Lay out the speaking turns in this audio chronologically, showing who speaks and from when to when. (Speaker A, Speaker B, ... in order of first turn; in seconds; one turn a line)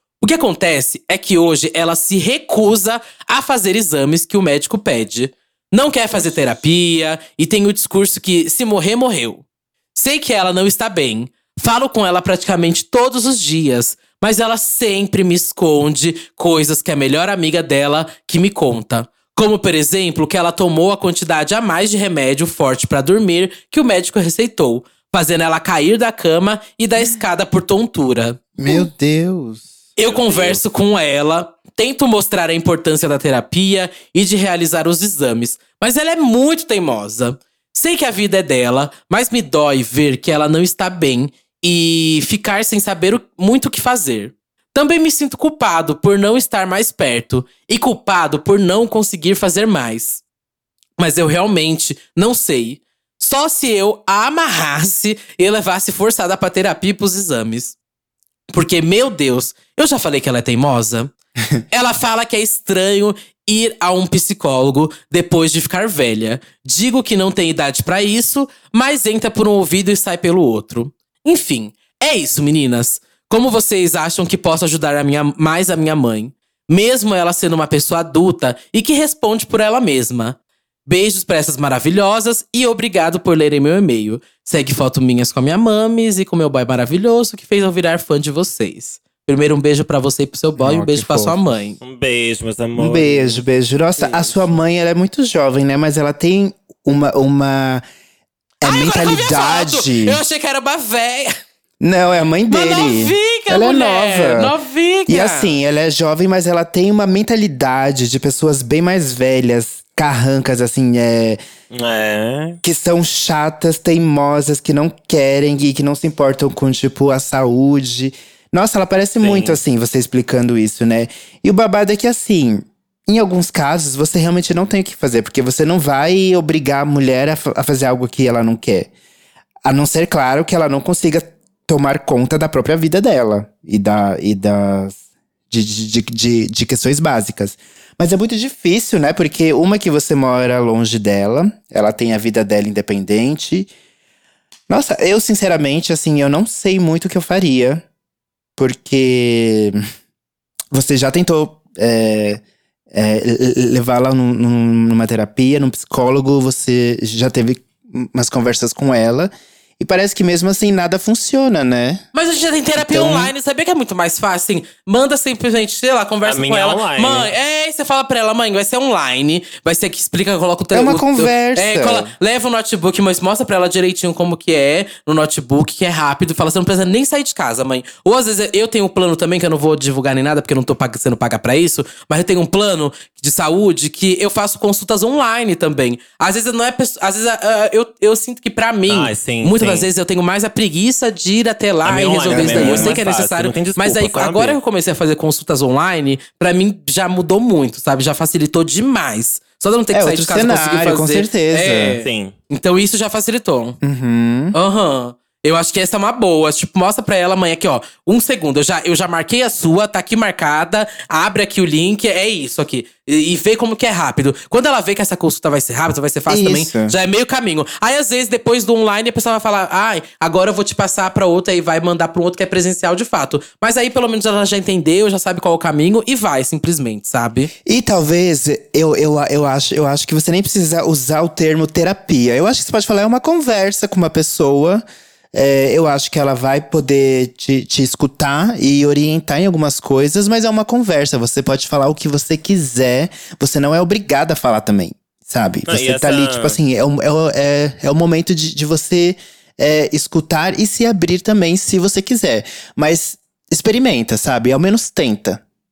Speaker A: 0.2-28.9
Speaker B: 28.6-29.8
Speaker A: 30.0-50.2
Speaker C: 30.1-30.6
Speaker A: 51.0-57.8
Speaker A: 58.5-61.1
Speaker A: 61.7-91.8
Speaker B: 90.6-91.4
Speaker C: 91.8-93.4
Speaker B: 92.8-97.8
Speaker A: 94.0-94.5
Speaker B: 98.6-100.2
Speaker A: 98.6-101.3
Speaker B: 101.8-104.5
Speaker A: 102.5-105.5
Speaker B: 105.1-111.4
Speaker C: 111.7-112.6
Speaker B: 112.6-128.9
Speaker C: 119.2-119.6
Speaker B: 129.7-143.7
Speaker B: 144.7-147.8
Speaker B: 148.6-149.8
Speaker B: 150.7-162.0
Speaker A: 162.1-203.8
Speaker B: 162.8-163.3
Speaker C: 166.2-167.3
Speaker B: 170.7-172.1
Speaker C: 188.9-189.9
Speaker C: 191.8-194.6
Speaker B: 192.3-193.0
Speaker B: 199.9-202.0
Speaker C: 202.0-202.3
Speaker B: 203.8-204.6
Speaker A: 204.5-227.5
Speaker B: 216.3-217.0
Speaker B: 227.7-234.8
Speaker B: 235.3-255.4
Speaker C: 245.7-246.6